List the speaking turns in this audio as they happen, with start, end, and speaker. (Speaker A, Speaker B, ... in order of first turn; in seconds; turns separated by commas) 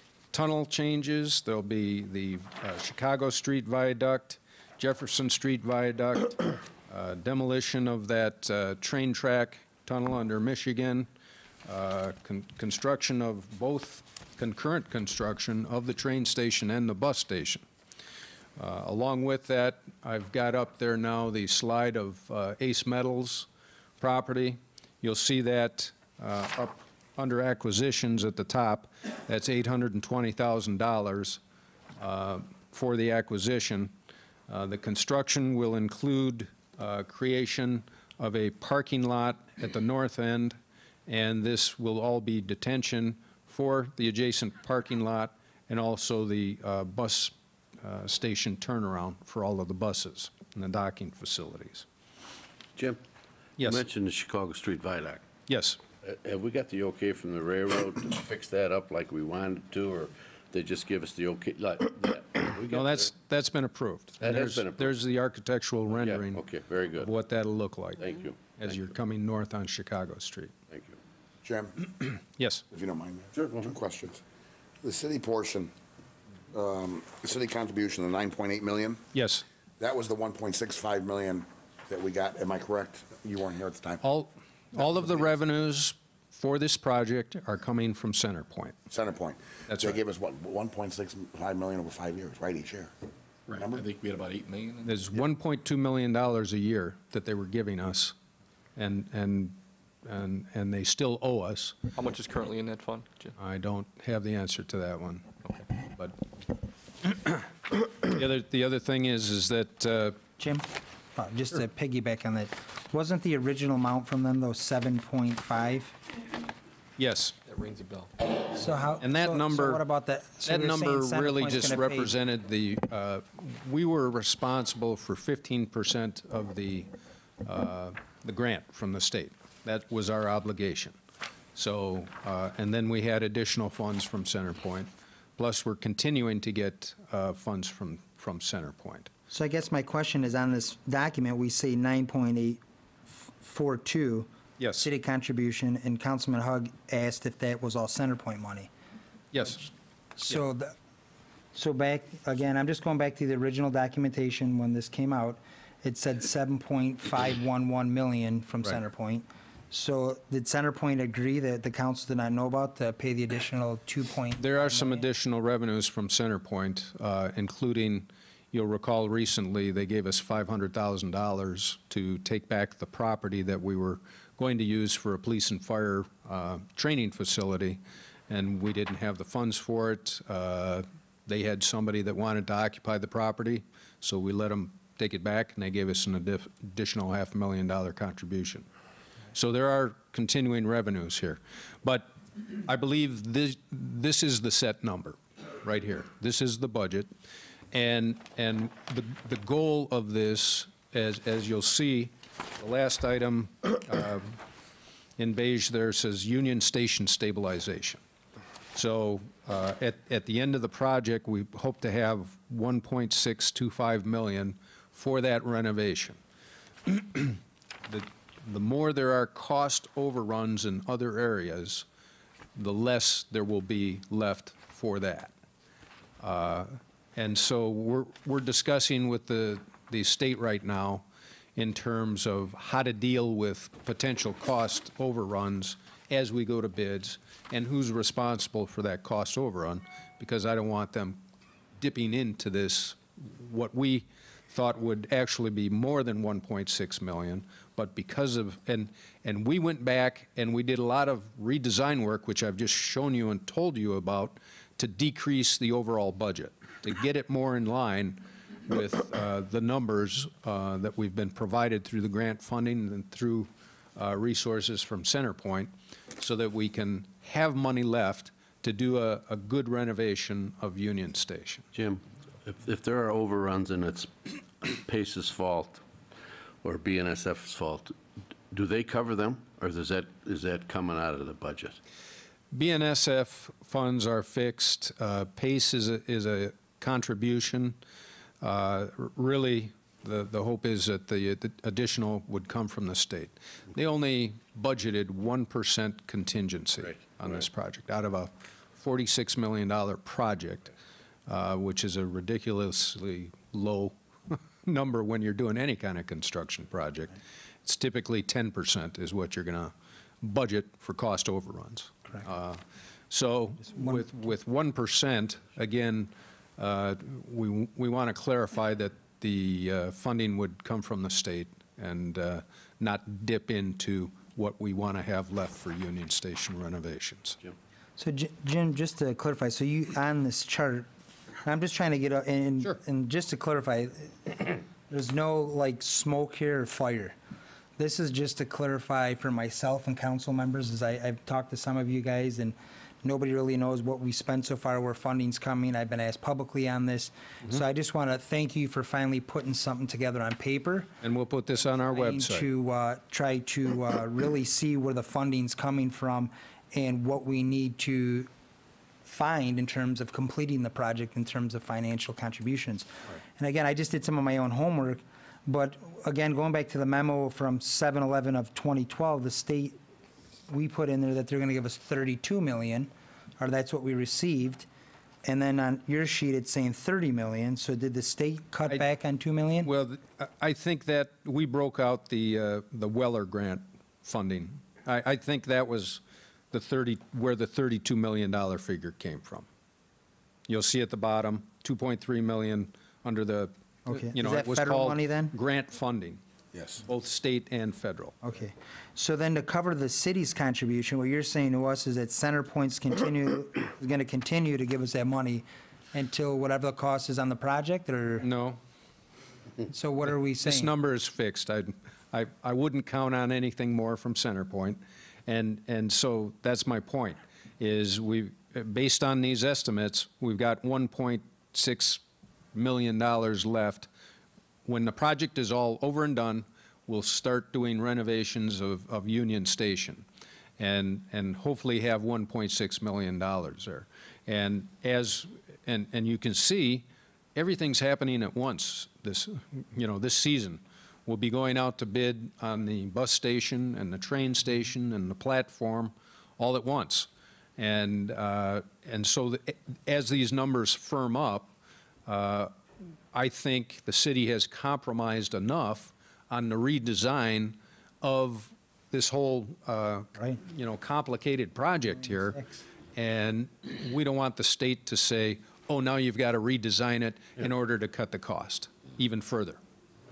Speaker A: 0.3-11.1, Speaker A: 11.7-17.6, Speaker A: 18.6-23.5, Speaker A: 24.0-31.4, Speaker A: 32.0-33.9, Speaker A: 34.5-51.9, Speaker A: 53.6-53.9, Speaker B: 53.6-55.2, Speaker A: 55.5-55.8, Speaker B: 56.0-63.1, Speaker A: 62.6-70.5, Speaker B: 64.2-64.9, Speaker B: 65.9-67.1, Speaker B: 68.0-68.8, Speaker B: 70.7-71.0, Speaker C: 71.4-71.8, Speaker A: 72.0-72.6, Speaker C: 72.7-74.2, Speaker B: 73.3-73.7, Speaker C: 74.8-75.7, Speaker C: 76.5-79.0, Speaker A: 79.1-79.4, Speaker C: 79.8-84.0, Speaker A: 84.0-88.8, Speaker C: 88.9-92.9, Speaker A: 89.7-90.0, Speaker D: 93.5-94.9, Speaker C: 93.5-93.8, Speaker A: 94.8-98.1, Speaker A: 98.8-101.8, Speaker D: 101.9-103.3, Speaker A: 103.4-105.3, Speaker A: 105.8-106.1, Speaker A: 107.0-110.2, Speaker E: 110.4-116.0, Speaker A: 117.0-117.3, Speaker D: 117.5-118.1, Speaker E: 118.5-122.1, Speaker A: 119.0-119.8, Speaker A: 120.4-126.9, Speaker A: 127.4-131.0, Speaker A: 131.5-139.1, Speaker E: 139.3-142.6, Speaker E: 143.4-148.7, Speaker A: 144.6-144.9, Speaker A: 149.3-149.6, Speaker E: 150.2-150.7, Speaker E: 151.5-165.0, Speaker A: 164.4-188.7, Speaker A: 189.3-197.1, Speaker A: 197.7-204.3, Speaker A: 205.2-208.0, Speaker A: 208.7-216.2, Speaker A: 216.8-221.8, Speaker A: 222.6-225.3, Speaker A: 226.2-241.2, Speaker A: 241.8-271.7, Speaker B: 271.7-275.8, Speaker B: 276.6-277.9, Speaker B: 278.5-281.8, Speaker A: 282.5-287.8, Speaker A: 288.4-300.7, Speaker B: 296.8-297.4, Speaker A: 301.3-327.4, Speaker E: 313.6-314.2, Speaker E: 328.0-330.9, Speaker E: 331.4-337.1, Speaker E: 337.8-350.9, Speaker A: 351.0-352.5, Speaker E: 351.9-358.3, Speaker E: 359.0-369.8, Speaker E: 370.5-374.7, Speaker E: 375.2-379.7, Speaker A: 379.6-389.5, Speaker A: 390.5-396.2, Speaker E: 393.9-395.3, Speaker C: 396.5-396.8, Speaker A: 396.8-398.2, Speaker E: 398.2-408.2, Speaker A: 408.2-408.6, Speaker E: 409.7-410.7, Speaker A: 410.4-422.0, Speaker A: 422.5-423.9, Speaker A: 424.6-430.1, Speaker A: 430.6-451.5, Speaker A: 452.1-452.5, Speaker A: 453.1-462.4, Speaker A: 462.9-469.6